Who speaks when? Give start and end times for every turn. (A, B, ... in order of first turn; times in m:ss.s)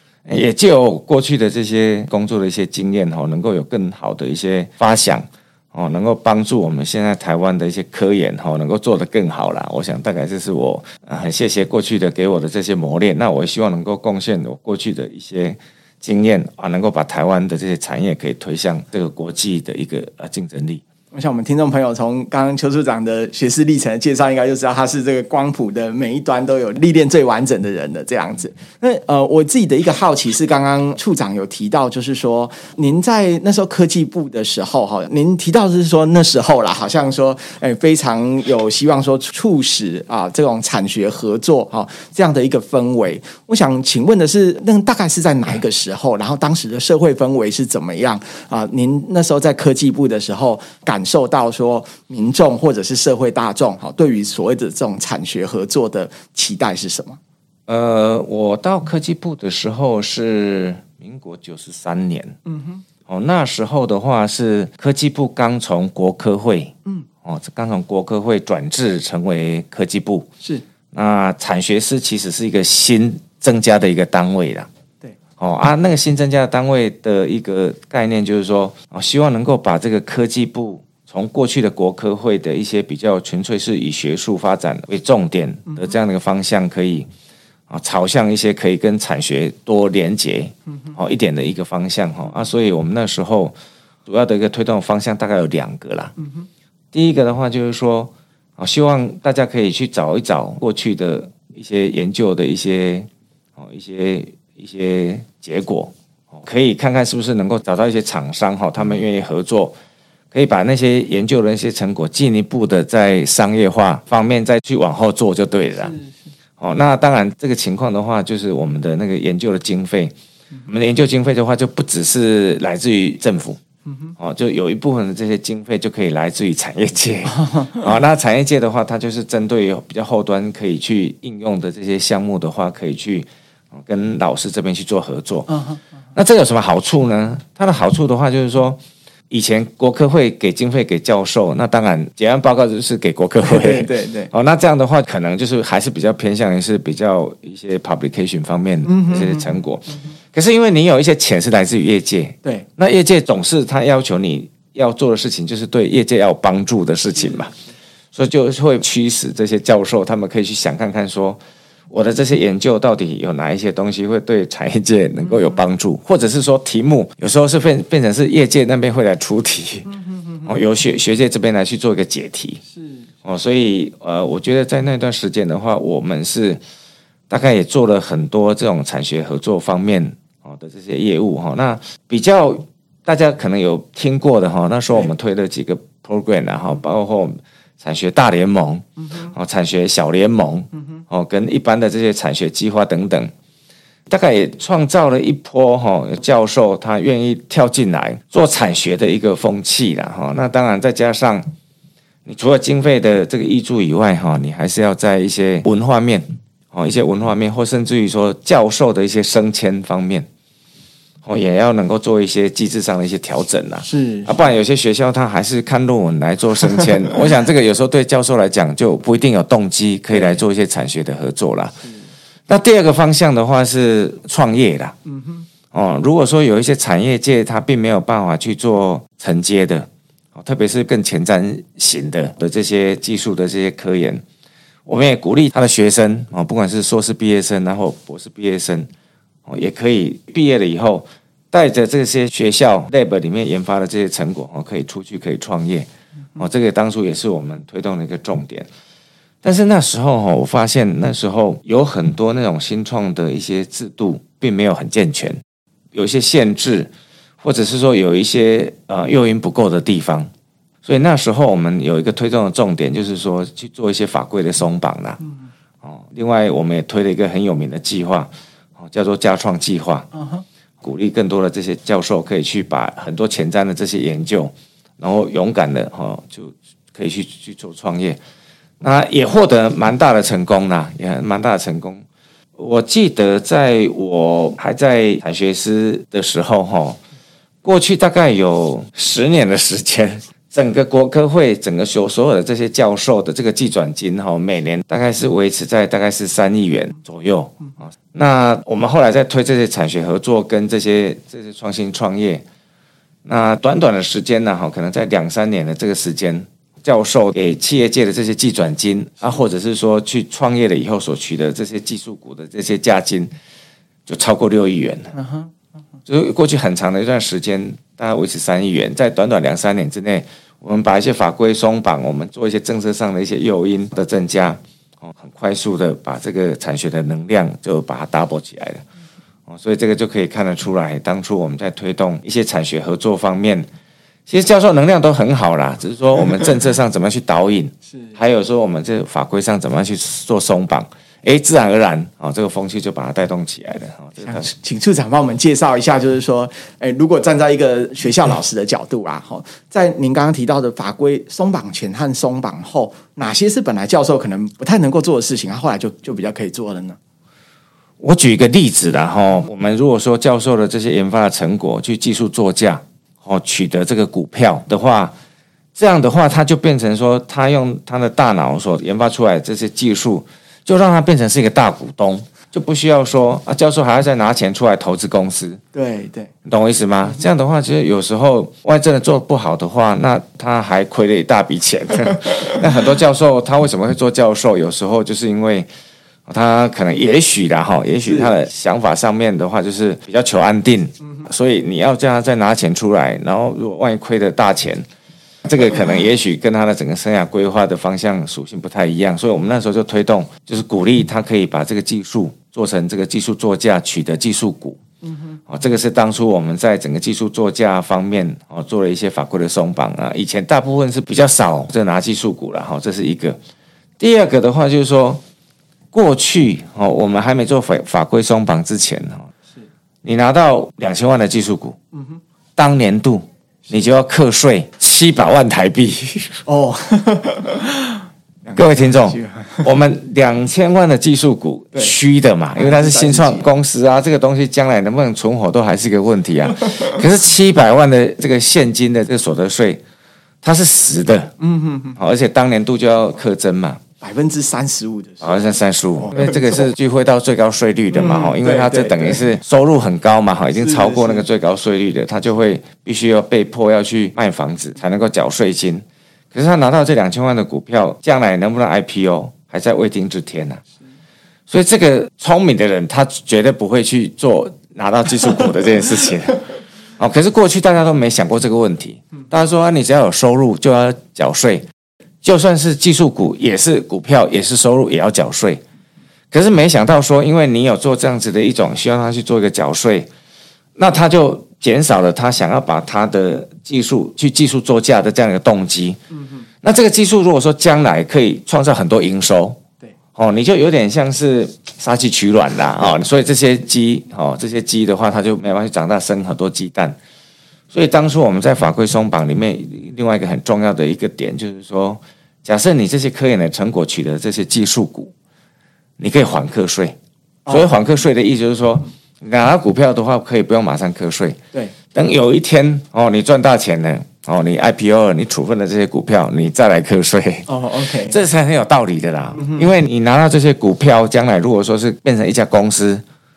0:00.3-0:20.8 A
0:21.1-0:57.2 B
0:57.7-1:02.4 A
1:02.5-1:02.8 B
1:03.1-1:10.3 A
1:10.9-1:14.7 A
1:15.4-1:27.1 A
1:27.7-1:33.6 A
1:34.1-1:36.1 A
1:36.9-1:49.8 A
1:50.3-1:55.9 A
1:55.8-1:56.1 B
1:56.6-2:00.1 A
2:00.7-2:03.6 A
2:03.9-2:04.1 B
2:04.2-2:15.5 A
2:07.3-2:07.8 B
2:15.5-2:15.8 B
2:16.2-2:18.8 A
2:19.3-2:37.5 A
2:23.4-2:24.3 B
2:28.8-2:29.5 B
2:38.1-2:41.4 A
2:41.9-2:49.9 A
2:50.4-2:52.6 A
2:52.7-2:53.1 B
2:53.2-2:56.6 A
2:57.3-3:13.3 A
3:14.1-3:21.4 A
3:22.3-3:30.3 A
3:31.2-3:41.8 A
3:33.8-3:34.3 B
3:42.5-3:45.0 A
3:45.1-3:45.4 B
3:45.7-3:54.2 A
3:54.9-3:58.9 A
3:59.5-4:08.7 A
4:09.4-4:15.4 A
4:15.9-4:16.9 A
4:17.4-4:20.3 A
4:20.8-4:25.2 A
4:25.8-4:30.1 A
4:30.1-4:30.4 B
4:30.8-4:38.2 A
4:38.8-4:42.0 A
4:42.6-4:47.0 A
4:47.6-5:02.4 A
5:03.2-5:13.3 A
5:14.1-5:15.1 A
5:15.1-5:15.5 B
5:16.1-5:28.8 A
5:29.5-5:33.7 A
5:34.3-5:44.5 A
5:44.2-5:57.0 B
5:58.0-6:05.1 A
6:05.8-6:15.6 A
6:15.7-6:16.3 B
6:16.4-6:25.7 A
6:26.3-6:34.8 A
6:35.4-6:44.8 A
6:45.0-6:45.4 B
6:45.5-6:53.4 A
6:54.0-6:55.2 A
6:55.9-6:59.3 A
7:00.0-7:01.8 A
7:02.6-7:06.4 A
7:06.5-7:09.6 B
7:08.5-7:19.8 A
7:12.6-7:13.5 B
7:20.4-7:21.3 A
7:21.4-7:22.0 B
7:22.0-7:23.8 A
7:24.0-7:25.4 B
7:25.2-7:40.6 A
7:26.1-7:26.4 B
7:27.9-7:29.2 B
7:30.6-7:31.2 B
7:41.5-7:46.4 A
7:47.0-7:51.7 A
7:52.2-7:55.6 A
7:56.3-8:00.1 A
8:00.8-8:06.0 A
8:06.1-8:06.4 B
8:06.6-8:09.6 A
8:10.2-8:17.0 A
8:17.7-8:25.1 A
8:26.0-8:27.0 A
8:27.5-8:27.8 B
8:27.5-8:31.4 A
8:31.9-8:43.0 A
8:37.5-8:38.2 B
8:39.4-8:39.6 B